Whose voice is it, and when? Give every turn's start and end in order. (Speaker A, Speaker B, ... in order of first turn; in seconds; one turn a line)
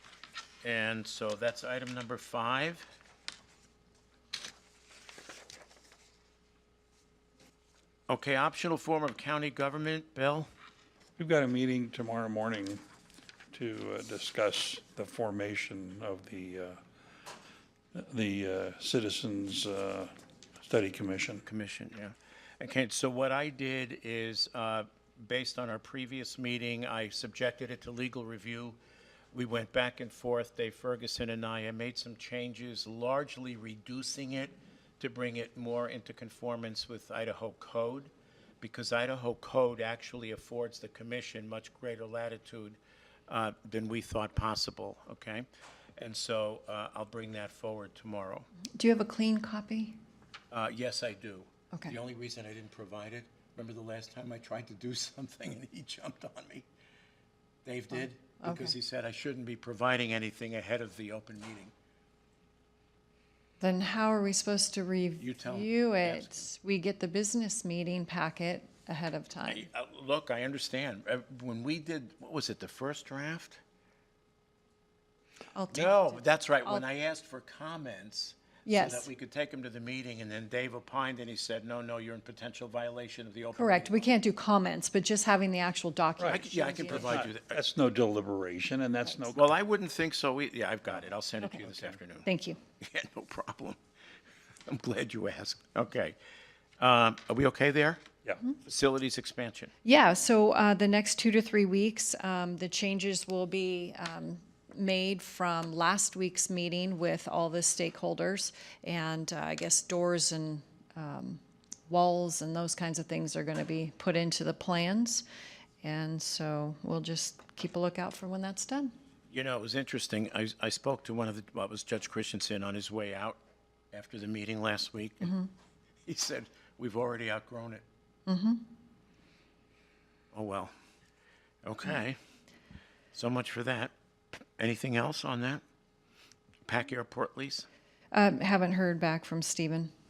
Speaker A: 0.6-2.9
Speaker A: 8.1-10.5
Speaker B: 11.2-12.8
Speaker B: 13.5-16.8
Speaker B: 17.9-21.4
Speaker A: 21.4-28.8
Speaker A: 29.3-48.5
Speaker C: 48.7-50.0
Speaker A: 50.5-56.7
Speaker A: 57.6-61.7
Speaker C: 57.9-58.7
Speaker C: 63.6-69.6
Speaker A: 65.2-66.3
Speaker A: 69.5-73.6
Speaker C: 75.5-76.8
Speaker A: 75.7-84.0
Speaker C: 78.7-79.1
Speaker C: 83.5-87.3
Speaker B: 86.2-89.5
Speaker A: 86.3-87.5
Speaker A: 89.4-92.2
Speaker B: 91.6-91.9
Speaker C: 92.2-92.6
Speaker A: 92.8-93.8
Speaker A: 94.6-96.2
Speaker A: 96.8-98.0
Speaker B: 98.2-98.5
Speaker A: 98.6-99.7
Speaker C: 99.8-115.2
Speaker C: 115.8-118.9
Speaker A: 119.3-123.4
Speaker A: 123.9-125.3
Speaker C: 125.2-125.5
Speaker A: 126.0-127.8
Speaker C: 128.3-128.6
Speaker A: 130.3-130.7
Speaker A: 131.6-132.2
Speaker A: 133.1-133.9
Speaker A: 134.6-135.6
Speaker A: 136.6-137.7
Speaker C: 138.1-139.9